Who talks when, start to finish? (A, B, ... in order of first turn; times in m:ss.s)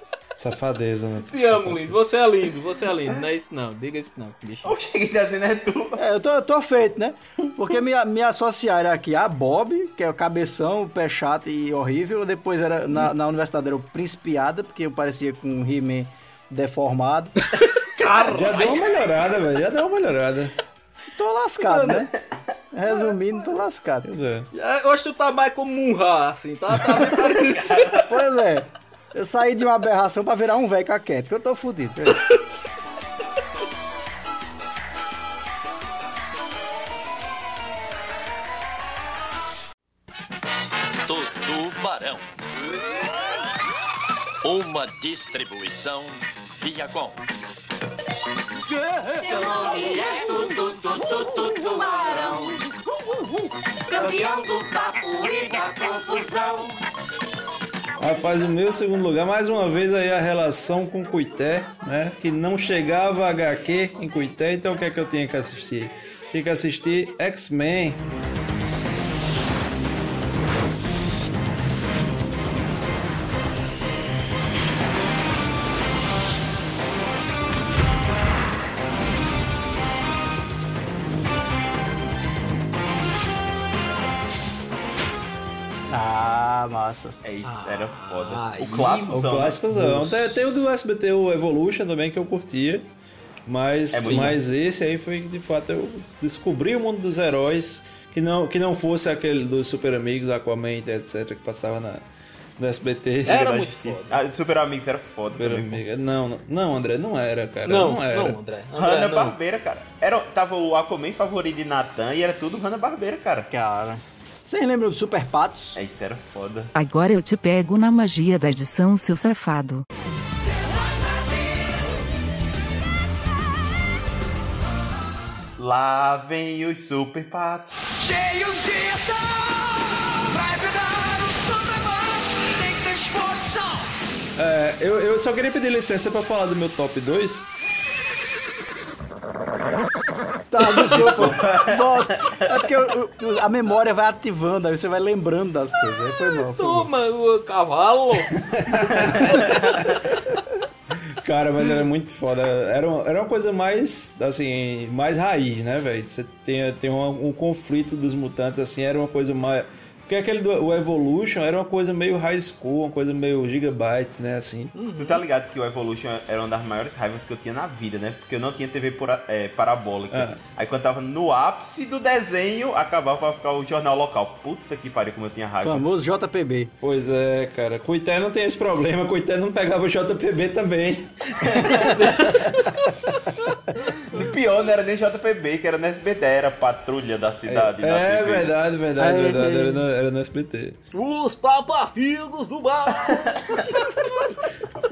0:00.4-0:02.0 A
0:01.3-0:04.7 B
0:04.6-0:06.0 C
0:06.0-0:17.4 D
0:17.6-0:18.9 B
0:18.3-0:20.5 A
0:21.2-0:22.1 D
0:21.6-0:22.1 B
0:22.7-0:24.1 D
0:22.9-0:23.1 B
0:24.0-0:24.5 A
0:24.5-0:28.1 B
0:27.9-0:32.2 D
0:32.1-0:32.5 B
0:41.1-0:42.2 E
0:44.4-0:47.1 E
0:49.2-0:50.3 F
0:51.8-0:52.3 F
0:53.9-0:54.3 F
0:58.0-1:08.0 A
1:25.9-1:27.2 D
1:27.2-1:29.6 C
1:27.4-1:29.3 B
1:29.1-1:32.9 A
1:33.5-1:42.0 A
1:33.9-1:34.4 C
1:34.0-1:34.4 B
1:42.6-1:43.5 A
1:43.2-1:44.2 B
1:43.3-1:45.8 C
1:45.3-1:48.4 A
1:47.6-1:49.4 B
1:48.8-1:53.5 C
1:53.5-1:55.8 D
1:55.8-1:56.7 C
1:56.7-1:59.8 G
2:05.6-2:07.8 C
2:14.4-2:17.5 A
2:20.5-2:26.9 D
2:20.6-2:21.1 B
2:21.0-2:21.8 C
2:26.5-2:28.4 B
2:28.4-2:29.9 A
2:31.2-2:44.8 A
2:44.7-2:45.2 B
2:45.0-2:55.8 C
2:50.1-2:50.4 A
2:55.6-2:56.7 D
2:56.8-3:02.7 A
3:01.7-3:01.9 C
3:01.7-3:03.6 B
3:04.1-3:08.5 C
3:07.4-3:10.8 A
3:09.0-3:09.8 D
3:10.9-3:14.3 B